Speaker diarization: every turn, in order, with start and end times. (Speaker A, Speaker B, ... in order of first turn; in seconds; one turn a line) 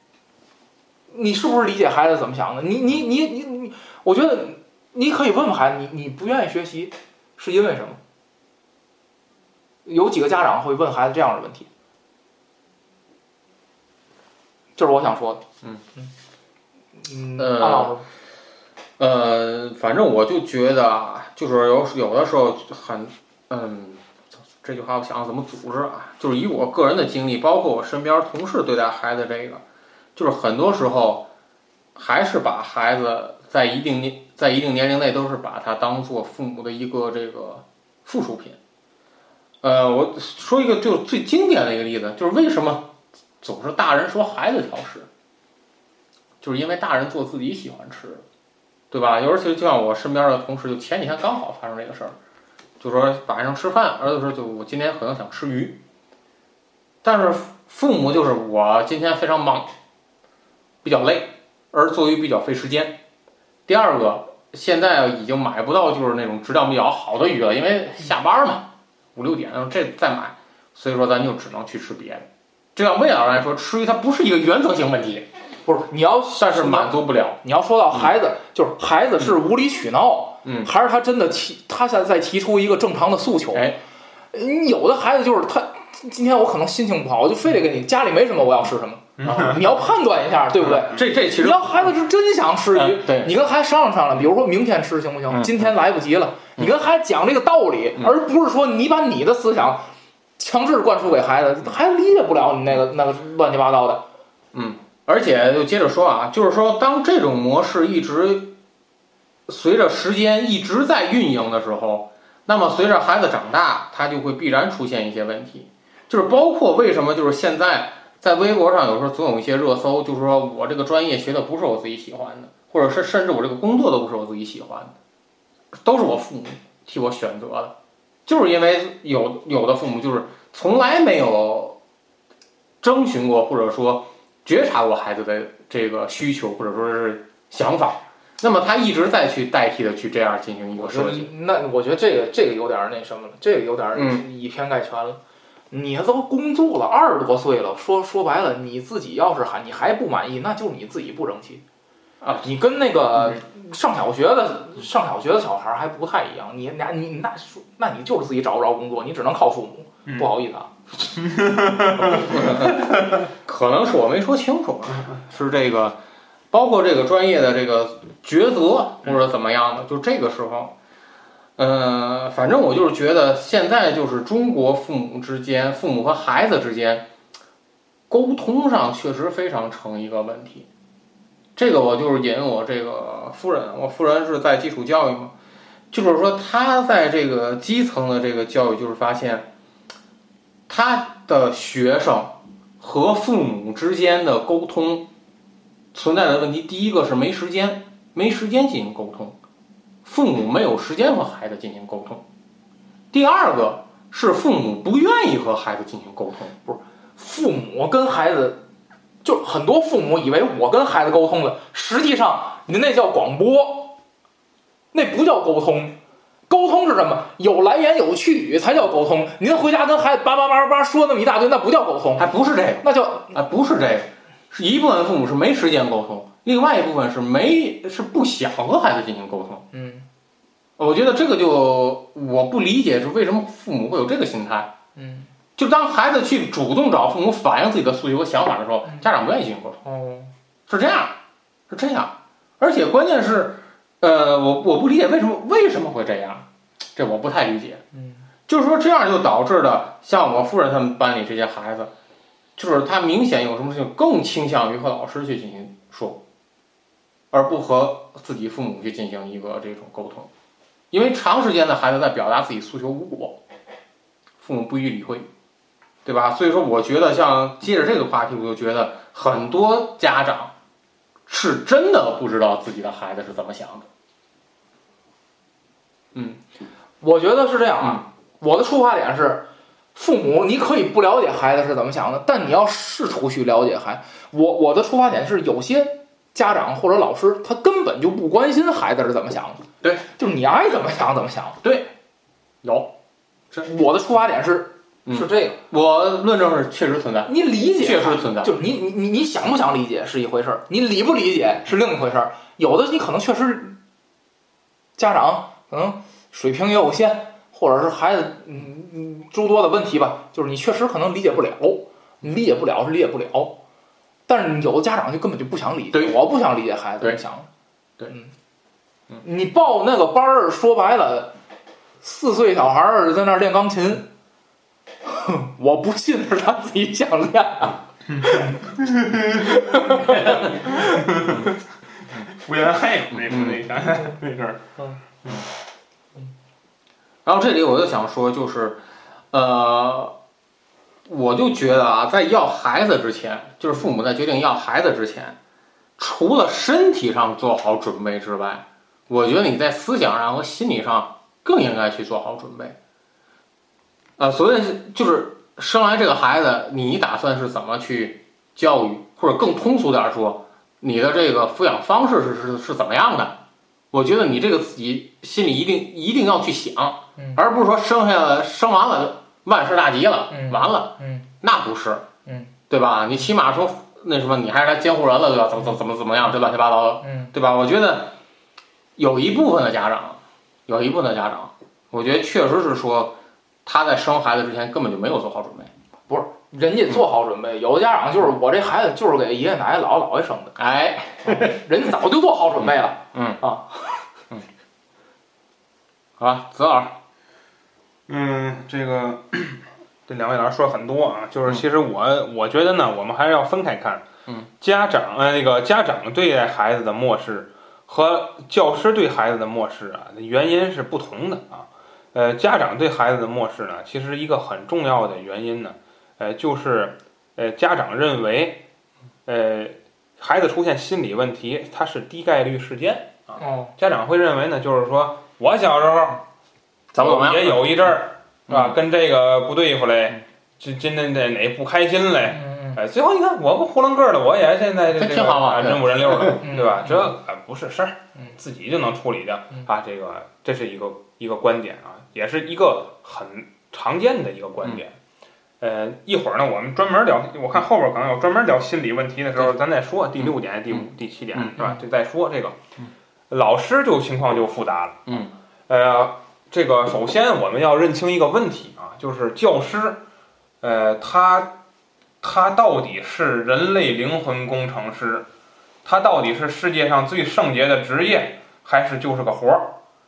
Speaker A: 1.1-8.0
Speaker A: 9.8-11.7
Speaker A: 14.8-15.4
Speaker A: 17.0-18.1
Speaker B: 17.4-17.9
Speaker B: 19.0-24.0
Speaker B: 24.6-29.6
Speaker B: 30.2-31.3
Speaker B: 31.9-38.6
Speaker B: 39.6-45.1
Speaker B: 46.4-48.2
Speaker B: 48.9-52.2
Speaker B: 52.8-55.8
Speaker B: 57.0-59.7
Speaker B: 60.8-63.0
Speaker B: 63.7-75.3
Speaker A: 75.7-83.7
Speaker B: 76.3-77.4
Speaker B: 80.4-80.7
Speaker B: 83.5-83.8
Speaker A: 84.3-99.8
Speaker C: 89.2-89.6
Speaker B: 89.2-89.6
Speaker B: 90.6-91.9
Speaker B: 92.7-93.3
Speaker B: 95.3-95.7
Speaker A: 100.4-104.0
Speaker B: 104.5-108.6
Speaker B: 109.5-125.0
Speaker B: 125.7-127.8
Speaker B: 128.3-131.8
Speaker B: 132.8-141.3
Speaker A: 140.8-145.2
Speaker B: 143.9-144.2
Speaker A: 145.7-151.6
Speaker B: 152.2-152.5
Speaker A: 152.4-160.7
Speaker C: 161.2-163.1
Speaker B: 162.0-166.0
Speaker B: 166.5-170.8
Speaker B: 171.6-177.1
Speaker B: 178.1-180.7
Speaker B: 181.6-185.3
Speaker B: 185.9-189.5
Speaker B: 190.7-195.1
Speaker B: 195.9-199.4
Speaker B: 200.1-202.2
Speaker B: 203.1-206.6
Speaker A: 206.7-208.6
Speaker A: 209.2-214.0
Speaker A: 214.9-216.0
Speaker A: 216.5-222.3
Speaker B: 222.2-229.7
Speaker A: 222.8-223.3
Speaker A: 229.7-230.1
Speaker B: 230.8-234.7
Speaker A: 235.0-235.3
Speaker B: 235.6-239.8
Speaker A: 239.8-240.3
Speaker B: 240.7-241.2
Speaker B: 241.7-247.8
Speaker A: 247.9-248.2
Speaker B: 248.5-251.9
Speaker B: 252.6-256.2
Speaker B: 257.3-260.3
Speaker B: 260.9-263.4
Speaker B: 264.4-265.3
Speaker B: 266.1-270.5
Speaker B: 271.3-273.9
Speaker B: 276.1-276.4
Speaker A: 277.0-289.6
Speaker A: 290.2-291.6
Speaker B: 291.6-291.9
Speaker B: 292.6-292.9
Speaker A: 293.6-295.6
Speaker B: 295.1-298.6
Speaker A: 297.3-303.8
Speaker A: 305.0-313.6
Speaker A: 314.3-317.5
Speaker A: 319.2-321.4
Speaker A: 322.0-324.1
Speaker A: 325.1-328.4
Speaker C: 328.1-331.4
Speaker A: 329.4-331.0
Speaker C: 332.3-334.6
Speaker B: 333.2-333.6
Speaker B: 337.2-340.2
Speaker B: 341.1-345.4
Speaker B: 346.0-352.8
Speaker B: 354.2-363.4
Speaker B: 363.9-372.1
Speaker A: 370.3-371.3
Speaker A: 372.3-372.5
Speaker B: 372.7-378.2
Speaker A: 377.0-377.3
Speaker B: 379.0-385.7
Speaker A: 386.1-390.6
Speaker B: 390.6-391.6
Speaker A: 391.2-393.8
Speaker B: 392.6-393.4
Speaker B: 396.2-397.0
Speaker C: 398.1-404.1
Speaker C: 404.6-418.6
Speaker C: 419.3-426.2
Speaker A: 423.4-423.7
Speaker B: 426.9-427.8
Speaker C: 427.0-444.9
Speaker B: 428.5-428.8
Speaker A: 432.3-432.8
Speaker B: 434.9-436.4
Speaker A: 436.4-437.0
Speaker C: 445.6-452.6
Speaker B: 450.2-451.6
Speaker C: 453.3-455.1
Speaker B: 455.1-455.3
Speaker C: 455.7-460.0
Speaker C: 460.6-461.5
Speaker C: 462.2-465.3
Speaker C: 465.9-469.8